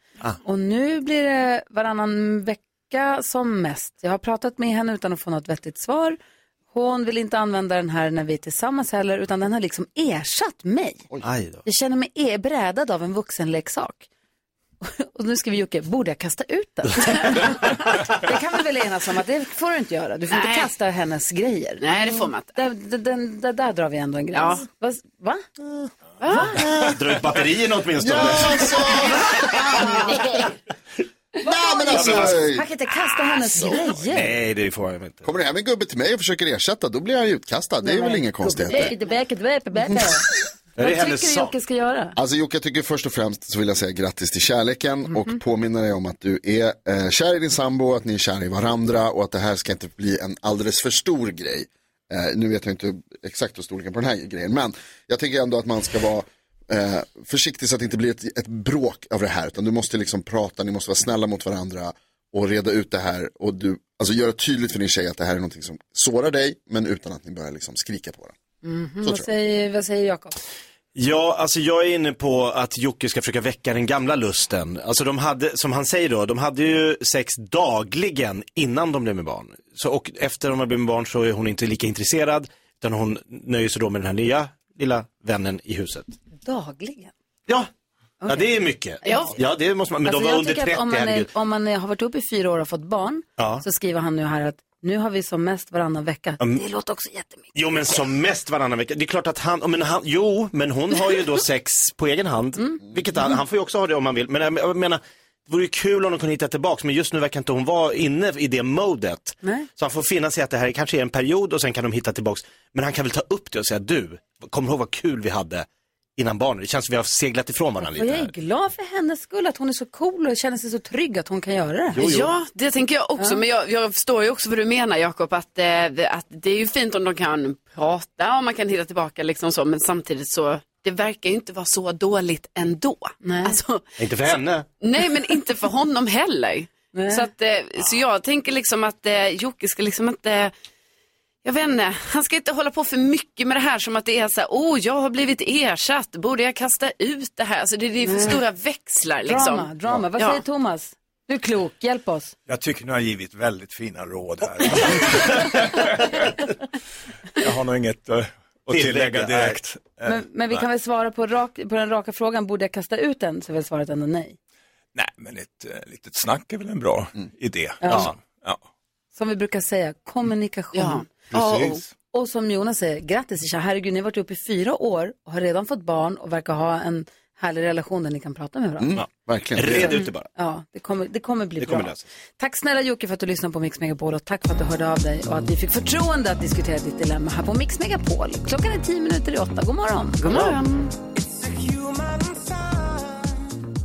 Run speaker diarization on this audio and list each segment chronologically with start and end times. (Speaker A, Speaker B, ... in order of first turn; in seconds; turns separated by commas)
Speaker A: 0.4-6.2, Speaker A: 6.7-11.1, Speaker B: 11.2-11.6, Speaker A: 11.7-14.1, Speaker A: 14.8-21.9, Speaker C: 20.3-20.7, Speaker C: 21.8-22.5, Speaker A: 22.5-25.4, Speaker C: 24.3-24.6, Speaker C: 26.2-26.6, Speaker A: 26.3-26.7, Speaker D: 26.5-27.0, Speaker B: 26.8-29.0, Speaker D: 28.0-30.2, Speaker A: 29.1-30.4, Speaker D: 31.4-32.7, Speaker A: 31.4-34.4, Speaker B: 31.9-32.4, Speaker B: 34.0-35.3, Speaker D: 35.2-38.9, Speaker A: 37.8-42.2, Speaker B: 40.8-41.5, Speaker D: 42.2-68.3, Speaker A: 45.1-45.4, Speaker A: 68.6-70.4, Speaker D: 69.0-69.3, Speaker B: 71.0-86.2, Speaker A: 86.4-87.1, Speaker A: 88.2-89.4, Speaker B: 88.3-91.3, Speaker C: 89.0-89.4, Speaker A: 90.0-97.5, Speaker B: 93.4-93.6, Speaker B: 97.5-115.7, Speaker A: 109.4-109.7, Speaker B: 116.2-118.3, Speaker A: 117.8-122.0, Speaker B: 121.9-122.3, Speaker C: 122.0-133.9, Speaker A: 133.2-133.6, Speaker B: 134.0-134.7, Speaker C: 134.8-140.5, Speaker A: 136.9-137.3, Speaker C: 141.4-150.4, Speaker A: 148.0-148.4, Speaker A: 149.3-152.3, Speaker E: 152.5-156.5, Speaker E: 157.4-160.7, Speaker B: 158.7-159.6, Speaker A: 160.1-164.4, Speaker E: 164.9-168.6, Speaker A: 167.8-168.1, Speaker B: 167.9-168.1, Speaker A: 169.2-171.1, Speaker C: 170.7-171.8, Speaker E: 171.3-171.9, Speaker A: 172.1-179.0, Speaker D: 178.8-180.0, Speaker B: 179.6-180.3, Speaker A: 179.9-190.6, Speaker B: 181.6-182.1, Speaker C: 190.3-190.9, Speaker B: 190.3-190.6